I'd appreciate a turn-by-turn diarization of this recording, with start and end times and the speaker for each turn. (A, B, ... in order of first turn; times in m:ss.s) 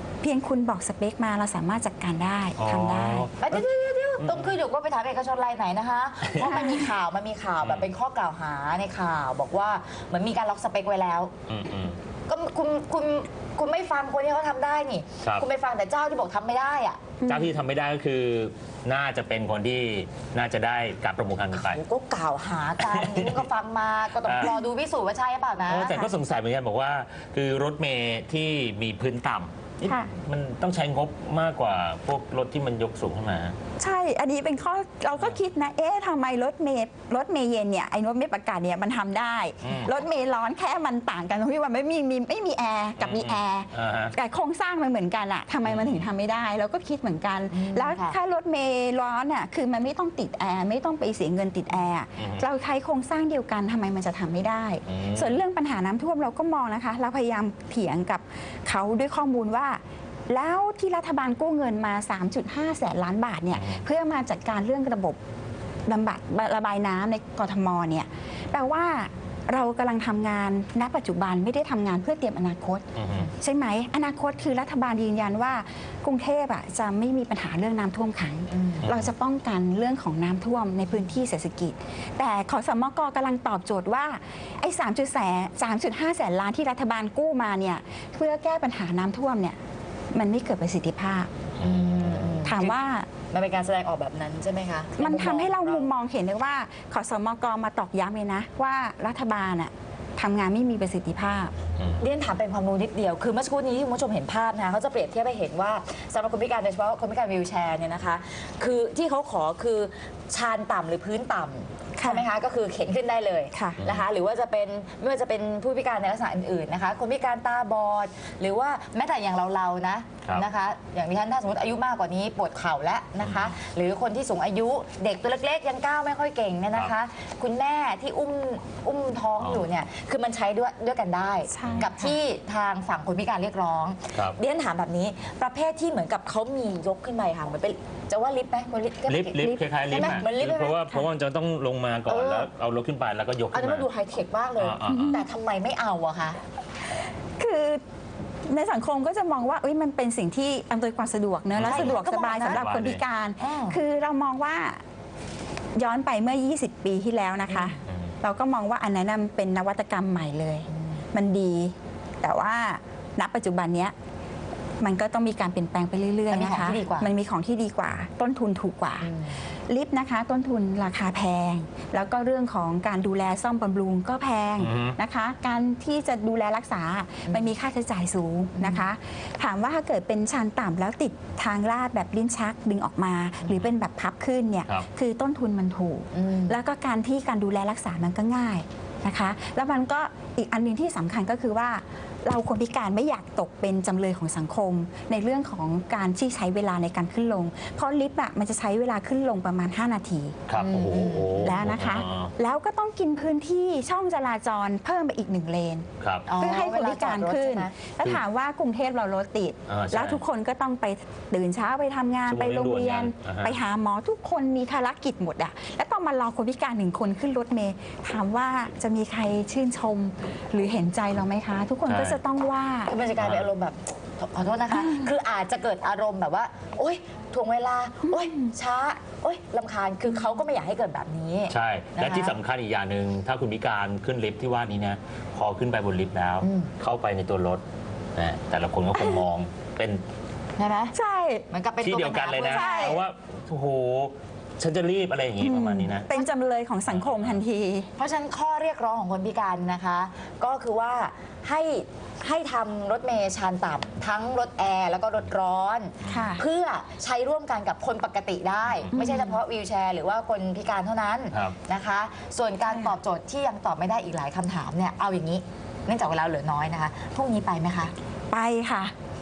0:00.2-0:03.3 A
0:02.6-0:03.7 B
0:03.4-0:11.3 C
0:04.2-0:04.5 B
0:06.4-0:06.9 A
0:07.6-0:07.9 B
0:11.5-0:12.0 B
0:12.3-0:17.1 C
0:17.2-0:17.6 A
0:17.2-0:21.8 B
0:21.5-0:26.1 C
0:22.8-0:23.4 B
0:24.2-0:24.5 B
0:25.7-0:33.6 B
0:29.8-0:30.1 A
0:33.8-1:05.2 A
0:39.6-0:40.0 B
0:43.0-0:44.1 B
0:45.6-0:46.0 B
0:47.5-0:48.2 C
0:52.2-0:52.5 B
0:54.9-0:55.4 B
1:03.5-1:03.8 B
1:05.9-1:29.6 A
1:13.0-1:13.3 B
1:18.5-1:18.9 C
1:18.8-1:19.1 B
1:30.1-1:31.3 A
1:31.6-1:32.4 B
1:31.6-1:32.8 C
1:32.4-1:33.1 A
1:33.3-1:35.9 C
1:35.0-1:41.5 A
1:42.0-2:20.8 C
1:52.0-1:52.2 A
1:53.5-1:53.8 A
1:53.8-1:54.0 B
2:03.2-2:03.6 B
2:09.4-2:09.7 B
2:11.5-2:12.2 A
2:19.1-2:23.9 B
2:19.4-2:20.2 A
2:22.0-2:22.5 C
2:23.5-2:26.4 C
2:24.6-2:25.2 B
2:24.8-2:25.2 A
2:27.4-2:27.8 A
2:28.4-2:34.8 A
2:31.5-2:33.0 B
2:31.6-2:32.7 C
2:33.4-2:33.8 C
2:35.8-2:43.9 A
2:37.5-2:37.8 C
2:37.9-2:38.1 B
2:40.7-2:41.0 C
2:44.8-2:49.1 A
2:46.3-2:47.1 C
2:49.0-2:49.4 C
2:49.7-3:20.4 A
2:54.6-2:55.0 B
2:57.2-2:57.5 C
2:58.6-2:58.9 C
3:03.4-3:03.7 C
3:06.1-3:06.6 C
3:20.5-3:22.3 B
3:20.6-3:21.6 C
3:21.4-3:25.9 A
3:26.0-3:26.3 B
3:26.3-3:27.7 C
3:26.4-3:42.9 A
3:29.7-3:30.2 B
3:32.3-3:33.6 B
3:41.9-3:42.2 B
3:42.9-3:52.3 C
3:43.2-3:43.5 B
3:44.7-3:45.1 A
3:48.1-3:48.5 A
3:51.5-3:57.6 B
3:56.4-3:56.7 C
3:58.1-4:00.0 B
3:58.9-3:59.2 A
4:00.6-4:00.9 C
4:00.9-4:01.5 A
4:01.5-4:03.0 C
4:01.8-4:06.1 B
4:02.4-4:03.0 A
4:05.4-4:07.9 A
4:06.9-4:07.4 B
4:08.0-4:27.9 C
4:16.0-4:16.4 B
4:16.1-4:16.4 A
4:18.9-4:19.4 A
4:22.7-4:22.9 A
4:28.3-4:28.9 A